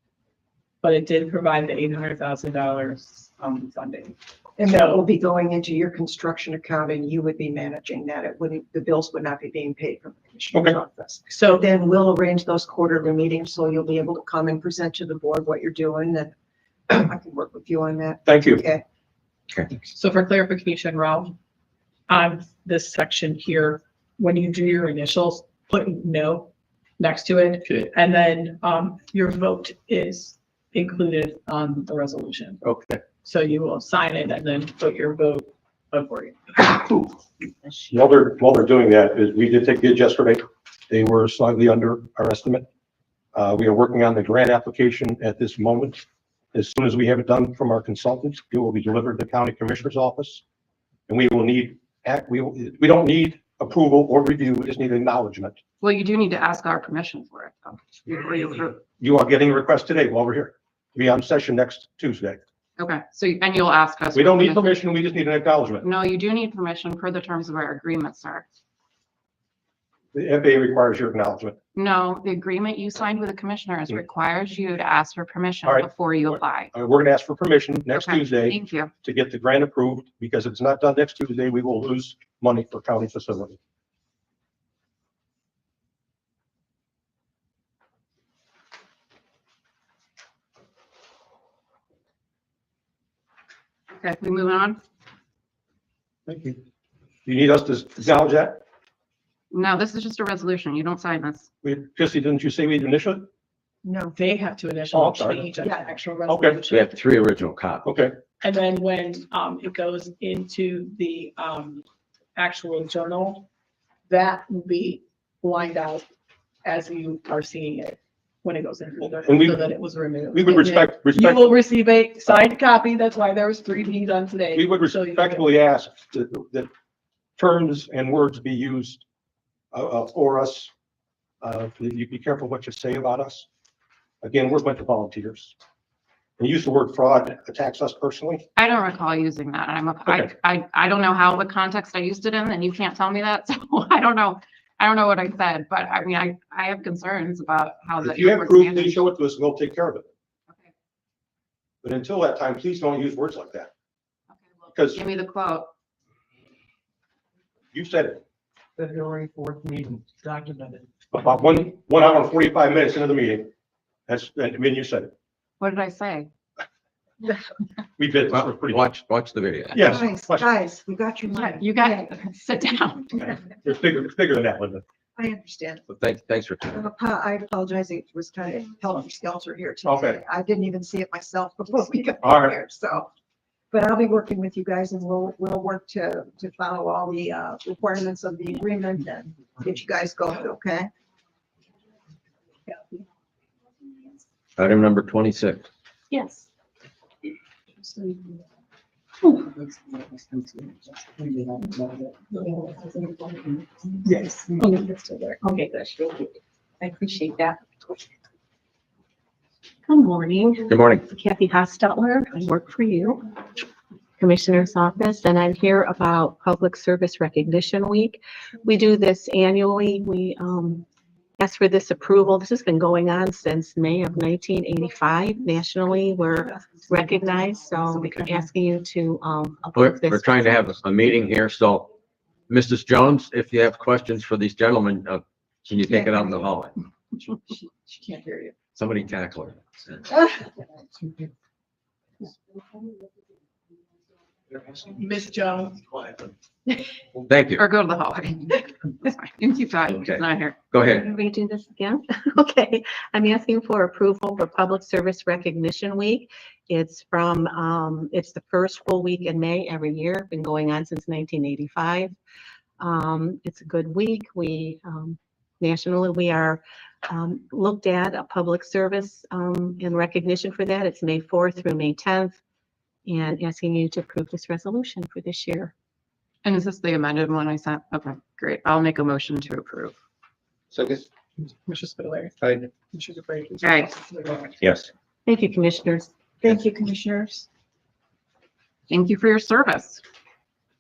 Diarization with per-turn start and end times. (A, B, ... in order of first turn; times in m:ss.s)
0:00.8-0:04.2 A
0:04.6-0:16.3 B
0:11.3-0:11.7 A
0:16.9-0:18.8 B
0:18.3-0:18.6 C
0:19.7-0:21.4 A
0:22.1-0:32.6 A
0:32.6-0:33.0 C
0:33.2-0:37.1 A
0:37.9-0:42.7 C
0:43.3-0:46.0 C
0:46.5-0:50.4 C
0:51.1-0:55.6 C
0:55.8-0:58.8 D
0:59.0-1:02.4 C
1:02.8-1:04.9 D
1:04.1-1:05.8 C
1:05.8-1:08.5 D
1:10.1-1:11.6 C
1:11.8-1:16.7 D
1:15.7-1:23.6 C
1:17.9-1:18.9 D
1:34.0-1:34.8 D
1:37.3-1:38.6 C
1:39.5-1:41.5 D
1:41.6-1:43.3 C
1:43.8-1:44.2 B
1:44.2-1:46.9 A
1:44.9-1:45.5 C
1:45.6-1:45.9 B
1:46.3-1:46.6 C
1:46.7-1:47.9 E
1:47.8-1:48.2 C
1:48.4-1:51.8 A
1:52.4-1:53.5 A
1:54.1-1:56.1 A
1:56.6-2:05.5 A
1:59.2-1:59.6 C
2:00.3-2:01.5 C
2:04.6-2:06.7 C
2:07.4-2:09.0 C
2:09.7-2:10.7 C
2:11.4-2:13.5 C
2:14.2-2:15.6 C
2:16.4-2:18.5 C
2:18.6-2:29.1 D
2:28.0-2:30.1 C
2:31.8-2:33.7 C
2:34.3-2:35.7 D
2:34.8-2:35.0 C
2:37.7-2:38.2 C
2:38.8-2:40.8 F
2:41.1-2:43.5 C
2:44.1-2:45.1 C
2:45.6-2:46.3 D
2:48.0-2:48.9 C
2:48.3-2:49.9 E
2:49.7-2:50.5 C
2:49.8-2:52.1 B
2:51.3-2:53.4 D
2:53.2-2:54.8 C
2:55.2-2:55.8 B
2:55.9-2:56.8 E
2:56.7-3:03.1 B
2:59.8-3:00.2 C
3:02.2-3:02.6 C
3:03.7-3:10.9 B
3:14.6-3:15.7 E
3:16.1-3:16.4 G
3:19.2-3:27.6 G
3:24.0-3:25.4 A
3:29.9-3:33.3 G
3:30.7-3:31.0 E
3:34.2-3:40.9 G
3:41.4-3:50.6 G
3:49.8-3:51.9 E
3:52.5-3:56.8 E
3:57.9-3:58.5 B
3:58.8-4:00.1 E
4:04.9-4:06.1 A
4:07.2-4:07.6 E
4:07.6-4:10.6 D
4:09.9-4:11.1 E
4:10.8-4:22.2 G
4:22.8-4:32.4 G
4:33.1-4:35.7 G
4:36.4-4:40.0 D
4:41.7-4:44.5 A
4:43.6-4:43.9 D
4:44.6-4:44.9 E
4:45.3-4:46.1 G
4:46.4-4:47.5 B
4:48.9-4:50.0 D